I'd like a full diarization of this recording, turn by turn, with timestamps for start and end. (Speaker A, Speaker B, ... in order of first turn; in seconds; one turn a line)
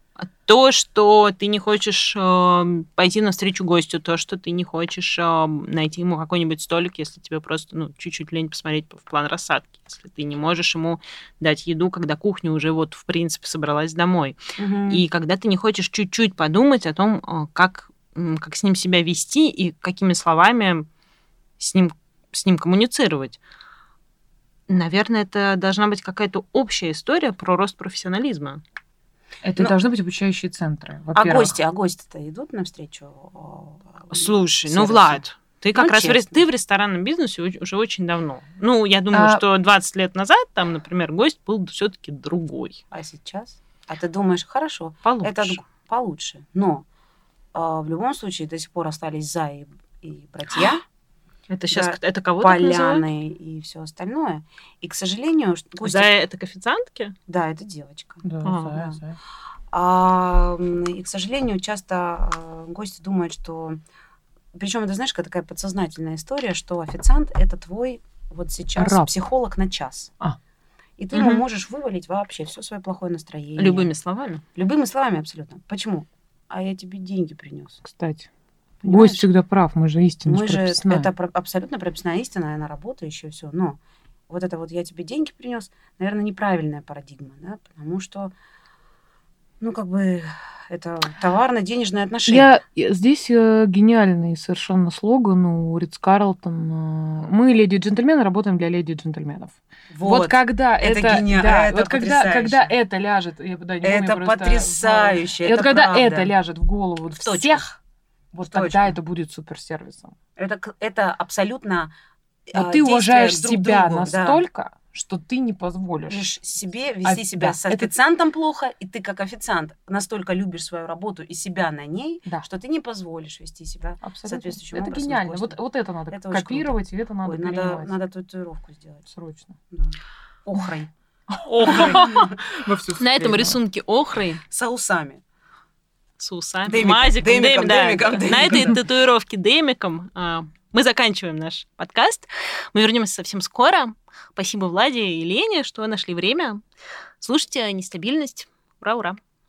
Speaker A: 0.2-20.9
Speaker B: 14.6-15.0
Speaker A: 21.6-23.4
Speaker A: 24.7-28.6
Speaker C: 29.4-31.5
Speaker B: 31.1-35.2
Speaker A: 34.1-42.8
Speaker B: 35.7-36.4
Speaker C: 39.1-39.4
Speaker B: 42.9-46.8
Speaker A: 45.0-45.6
Speaker B: 47.5-50.8
Speaker A: 51.5-53.0
Speaker B: 51.7-56.1
Speaker A: 55.8-57.1
Speaker B: 57.3-58.9
Speaker C: 58.2-59.2
Speaker A: 58.4-58.7
Speaker B: 59.7-63.8
Speaker B: 64.5-70.1
Speaker C: 68.8-69.1
Speaker B: 71.0-73.9
Speaker A: 71.1-71.4
Speaker A: 73.6-74.4
Speaker B: 74.5-77.8
Speaker C: 77.8-78.3
Speaker B: 78.8-79.2
Speaker C: 78.8-81.1
Speaker B: 80.3-83.8
Speaker B: 84.3-88.3
Speaker B: 89.6-92.6
Speaker C: 92.3-107.7
Speaker B: 99.9-102.7
Speaker B: 103.8-106.3
Speaker B: 107.1-107.7
Speaker C: 108.3-110.1
Speaker B: 108.4-108.9
Speaker B: 110.4-111.9
Speaker B: 112.5-114.4
Speaker C: 112.5-116.3
Speaker B: 116.1-125.6
Speaker C: 117.0-117.9
Speaker C: 124.0-127.9
Speaker B: 126.1-129.1
Speaker C: 129.1-129.6
Speaker B: 129.7-130.9
Speaker C: 131.3-133.6
Speaker A: 131.4-132.3
Speaker B: 131.7-132.3
Speaker A: 133.0-134.4
Speaker B: 134.5-135.2
Speaker A: 136.2-146.6
Speaker B: 136.7-138.8
Speaker A: 147.2-149.2